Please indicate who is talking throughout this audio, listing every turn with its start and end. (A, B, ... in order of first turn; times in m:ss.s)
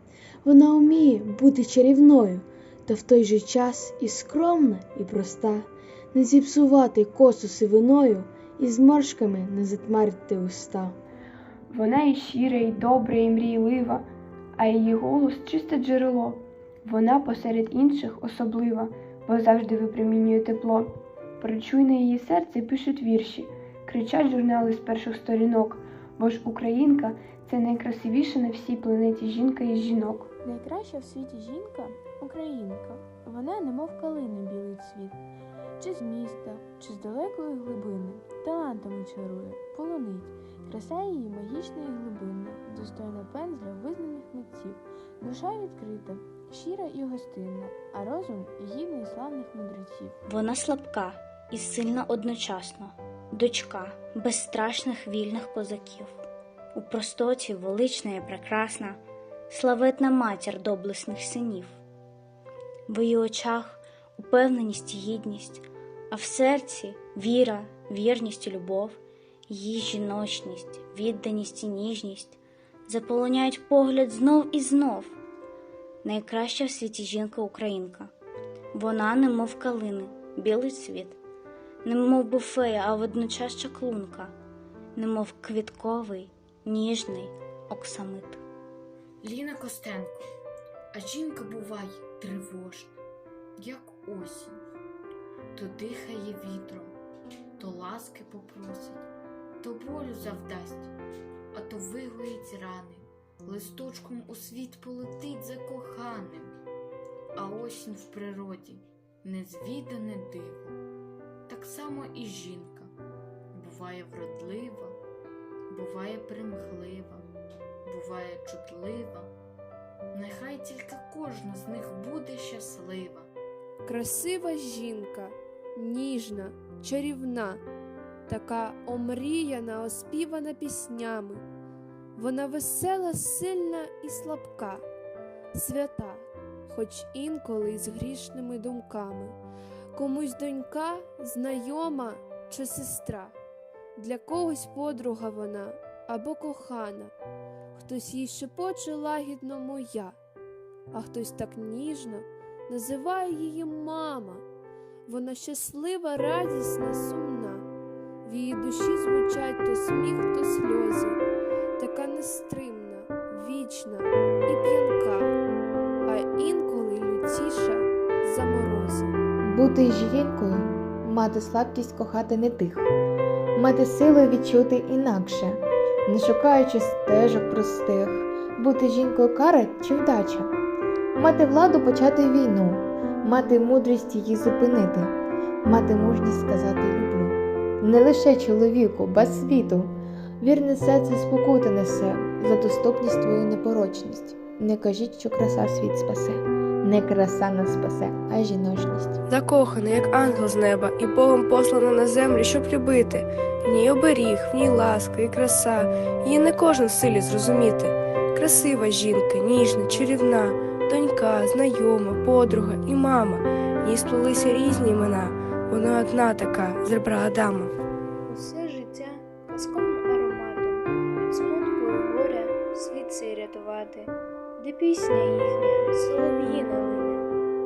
0:00.4-0:11.0 A
0:11.7-0:30.3 B
0:30.4-0:35.2 C
0:35.8-0:50.2 C
0:50.3-0:56.2 D
0:56.8-0:59.0 D
0:59.5-1:01.8 D
1:02.9-1:15.2 D
1:16.0-1:18.1 D
1:18.7-1:21.2 D
1:21.8-1:24.3 D
1:25.0-1:28.4 D
1:29.2-1:30.2 E
1:30.9-1:33.0 E
1:33.6-1:34.6 E
1:35.6-1:37.0 E
1:37.6-1:39.0 E
1:39.6-1:40.9 E
1:41.5-1:46.6 E
1:47.4-1:50.8 E
1:51.5-1:52.9 E
1:53.5-1:55.0 E
1:55.7-1:57.3 E
1:57.9-1:59.3 E
2:00.1-2:03.3 E
2:03.9-2:07.6 F
2:08.3-2:11.4 F
2:12.2-2:14.8 F
2:15.5-2:19.4 F
2:19.9-2:23.4 F
2:24.0-2:27.1 F
2:27.7-2:30.2 F
2:30.9-2:34.4 F
2:35.1-2:37.6 F
2:38.2-2:41.2 F
2:41.8-2:45.3 F
2:46.1-2:49.2 F
2:49.4-2:52.9 G
2:53.6-3:00.5 G
3:01.2-3:05.1 G
3:05.6-3:19.2 G
3:19.3-3:37.7 H
3:38.3-3:47.3 I